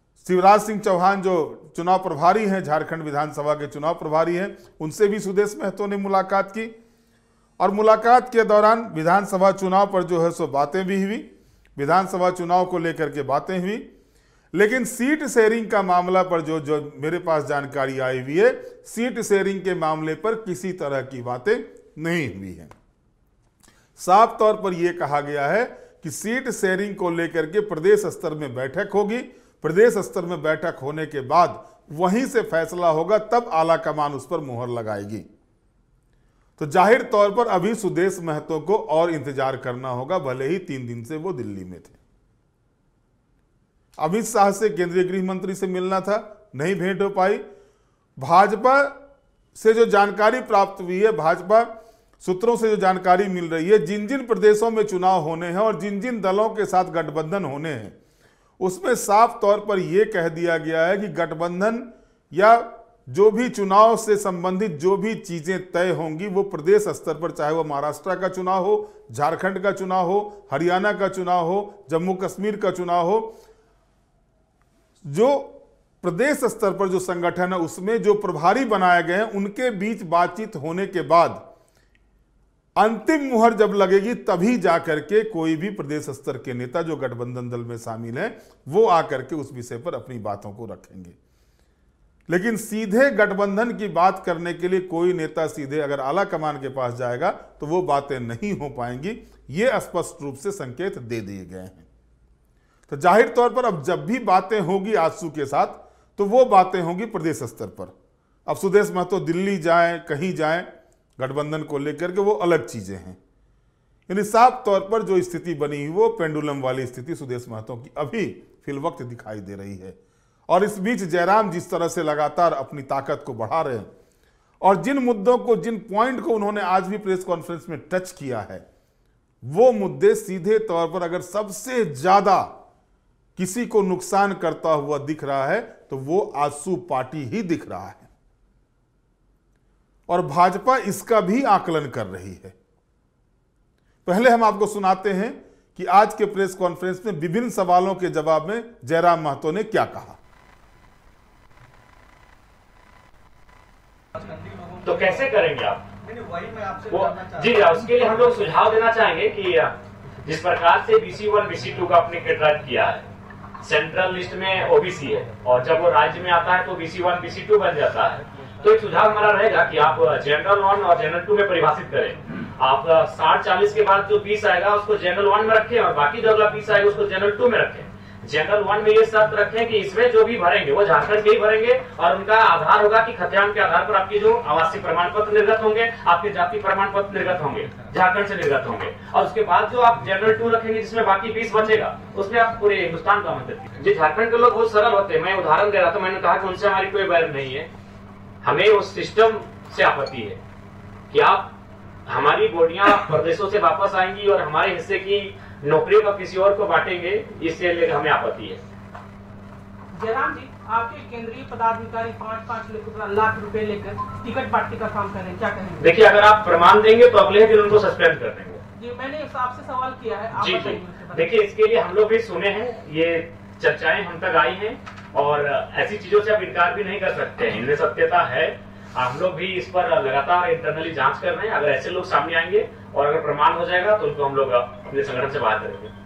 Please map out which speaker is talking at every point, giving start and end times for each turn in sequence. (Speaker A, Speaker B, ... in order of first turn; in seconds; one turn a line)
Speaker A: 0.2-6.7
Speaker A: 7.6-13.9
Speaker A: 14.5-22.7
Speaker A: 24.0-35.2
Speaker A: 36.6-42.0
Speaker A: 44.0-47.4
Speaker A: 48.2-49.0
Speaker A: 49.5-58.0
Speaker A: 58.6-73.4
Speaker A: 75.0-81.4
Speaker A: 82.8-91.2
Speaker A: 92.3-101.8
Speaker A: 102.9-107.9
Speaker A: 108.5-113.2
Speaker A: 114.1-120.0
Speaker A: 120.5-123.9
Speaker A: 124.6-128.6
Speaker A: 129.4-132.5
Speaker A: 133.3-138.1
Speaker A: 140.1-142.5
Speaker A: 144.0-150.2
Speaker B: 154.1-155.3
Speaker C: 154.8-155.8
Speaker B: 156.0-158.3
Speaker C: 156.9-163.0
Speaker C: 163.6-197.7
Speaker C: 198.4-200.4
Speaker C: 201.1-201.5
Speaker C: 202.1-208.6
Speaker D: 209.9-215.9
Speaker C: 215.8-218.6
Speaker D: 218.8-221.3
Speaker C: 220.3-235.9